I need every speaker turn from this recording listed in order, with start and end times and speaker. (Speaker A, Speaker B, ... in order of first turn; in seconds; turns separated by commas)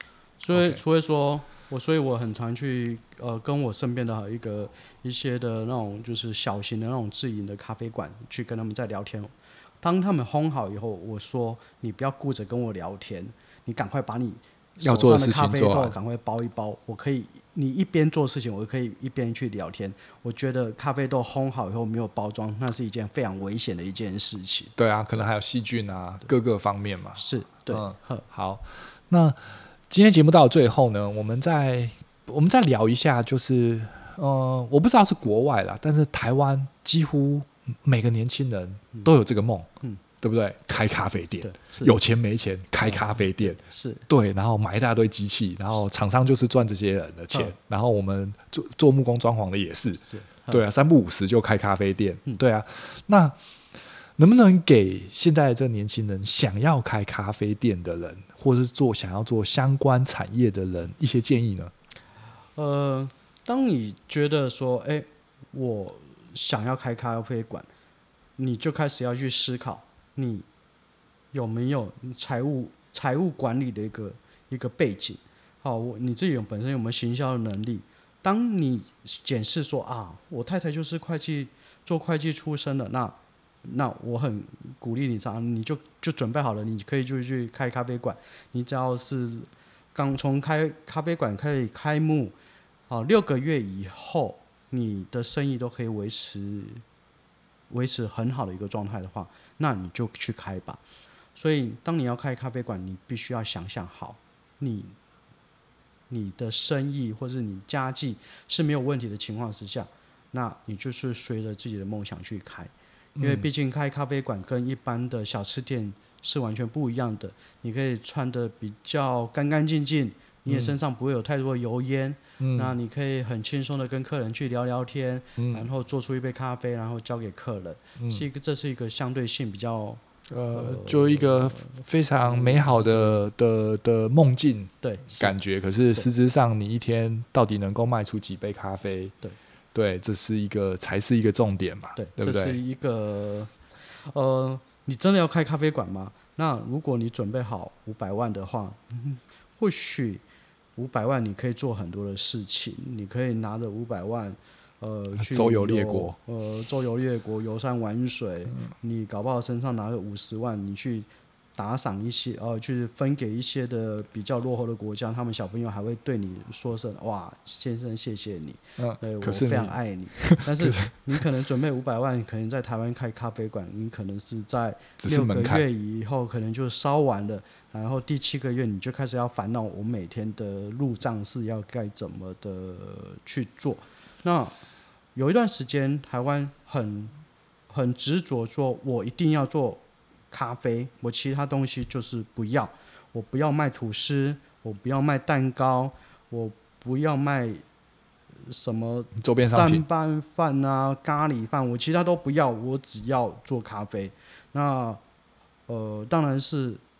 Speaker A: 0.4-24.8, Speaker B: 0.5-0.8, Speaker B: 14.8-15.9, Speaker B: 24.8-53.4, Speaker A: 27.2-28.3, Speaker A: 41.4-42.0, Speaker A: 42.8-44.1, Speaker A: 50.0-50.6, Speaker B: 54.2-61.7, Speaker A: 62.6-67.7, Speaker A: 68.4-70.5, Speaker A: 71.3-92.3, Speaker A: 92.9-96.8, Speaker A: 97.7-100.8, Speaker A: 101.3-105.0, Speaker A: 106.1-130.0, Speaker B: 113.2-113.5, Speaker B: 120.5-120.7, Speaker B: 122.4-122.7, Speaker B: 125.4-125.7, Speaker B: 128.0-128.3, Speaker B: 130.3-139.2, Speaker A: 130.5-133.3, Speaker A: 134.8-135.4, Speaker B: 139.7-142.6, Speaker A: 142.0-150.2, Speaker A: 150.8-184.6, Speaker B: 155.2-156.2, Speaker B: 168.8-171.0, Speaker B: 175.0-175.6, Speaker A: 185.2-187.1, Speaker A: 187.7-197.6, Speaker A: 198.5-205.0, Speaker B: 199.2-199.8, Speaker A: 205.7-206.8